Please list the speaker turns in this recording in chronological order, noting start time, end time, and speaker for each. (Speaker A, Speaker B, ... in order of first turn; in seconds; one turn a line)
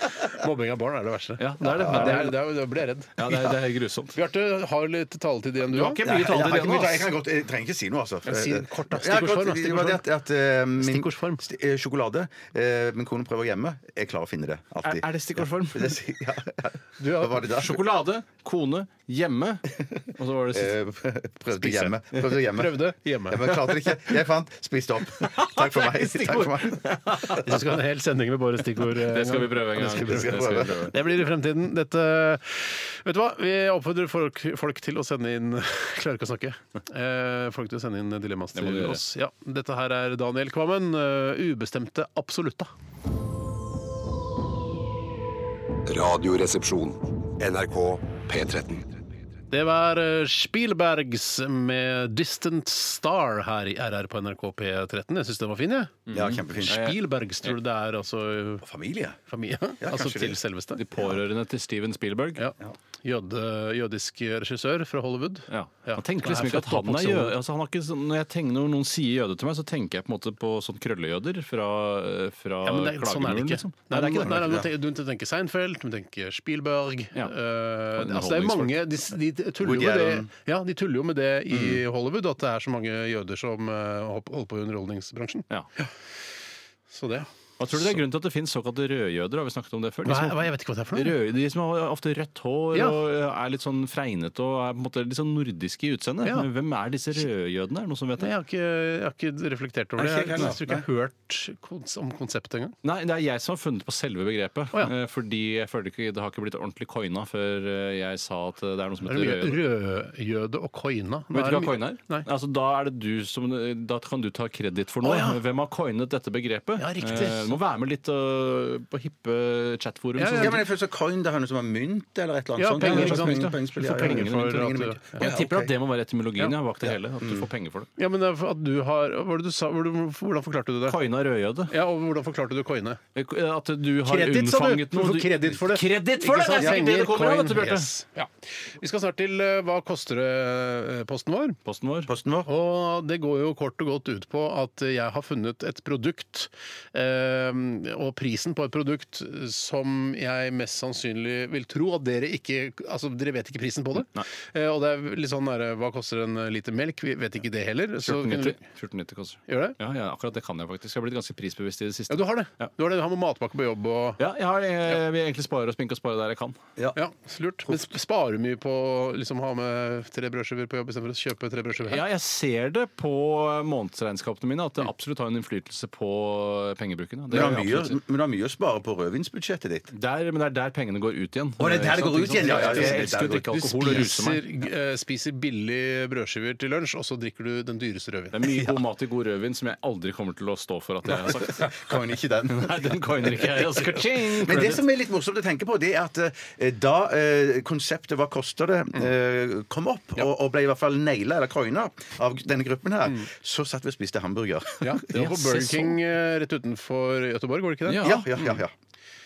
Speaker A: 0.2-3.5
Speaker B: 1.4-2.4
Speaker C: 1.6-2.2
Speaker B: 3.2-4.2
Speaker A: 4.1-6.0
Speaker B: 5.7-7.1
Speaker C: 6.0-17.8
Speaker A: 8.2-10.0
Speaker A: 10.8-11.4
Speaker B: 14.8-16.0
Speaker A: 17.0-17.4
Speaker B: 17.5-20.7
Speaker C: 20.5-27.4
Speaker A: 21.6-21.9
Speaker A: 22.5-23.5
Speaker B: 25.2-27.5
Speaker A: 27.4-42.7
Speaker B: 28.8-30.9
Speaker C: 29.8-30.9
Speaker B: 38.5-39.0
Speaker D: 45.9-48.9
Speaker A: 49.5-56.0
Speaker B: 56.1-57.5
Speaker C: 56.1-56.8
Speaker A: 56.6-58.6
Speaker C: 58.6-59.2
Speaker A: 59.3-60.8
Speaker C: 59.8-60.4
Speaker B: 60.8-62.4
Speaker A: 62.4-67.3
Speaker B: 65.5-74.6
Speaker A: 72.6-85.9
Speaker C: 74.3-74.7
Speaker B: 78.0-78.8
Speaker C: 79.6-80.3
Speaker C: 81.5-81.8
Speaker A: 86.9-87.9
Speaker B: 87.6-98.3
Speaker A: 90.0-91.1
Speaker A: 98.2-102.7
Speaker C: 100.0-100.8
Speaker B: 102.8-109.6
Speaker A: 109.0-112.2
Speaker B: 111.3-120.6
Speaker A: 115.0-115.4
Speaker A: 116.8-117.5
Speaker A: 120.2-120.5
Speaker C: 120.4-125.7
Speaker A: 122.6-125.3
Speaker B: 122.8-127.9
Speaker C: 126.8-127.5
Speaker A: 128.0-131.0
Speaker B: 130.9-131.7
Speaker A: 131.7-133.0
Speaker B: 133.1-137.9
Speaker A: 134.1-141.6
Speaker B: 141.7-142.1
Speaker C: 142.1-142.5
Speaker A: 142.4-158.6
Speaker B: 158.0-162.7
Speaker A: 159.5-159.8
Speaker A: 162.1-164.2
Speaker B: 164.2-166.6
Speaker A: 166.9-172.0
Speaker B: 171.8-177.9
Speaker C: 177.3-179.9
Speaker B: 179.9-184.4
Speaker C: 181.6-183.6
Speaker A: 182.4-188.4
Speaker B: 188.3-191.8
Speaker C: 191.1-205.0
Speaker B: 192.5-194.8
Speaker A: 204.8-208.6
Speaker B: 205.1-206.0
Speaker B: 207.8-208.3
Speaker C: 208.0-208.7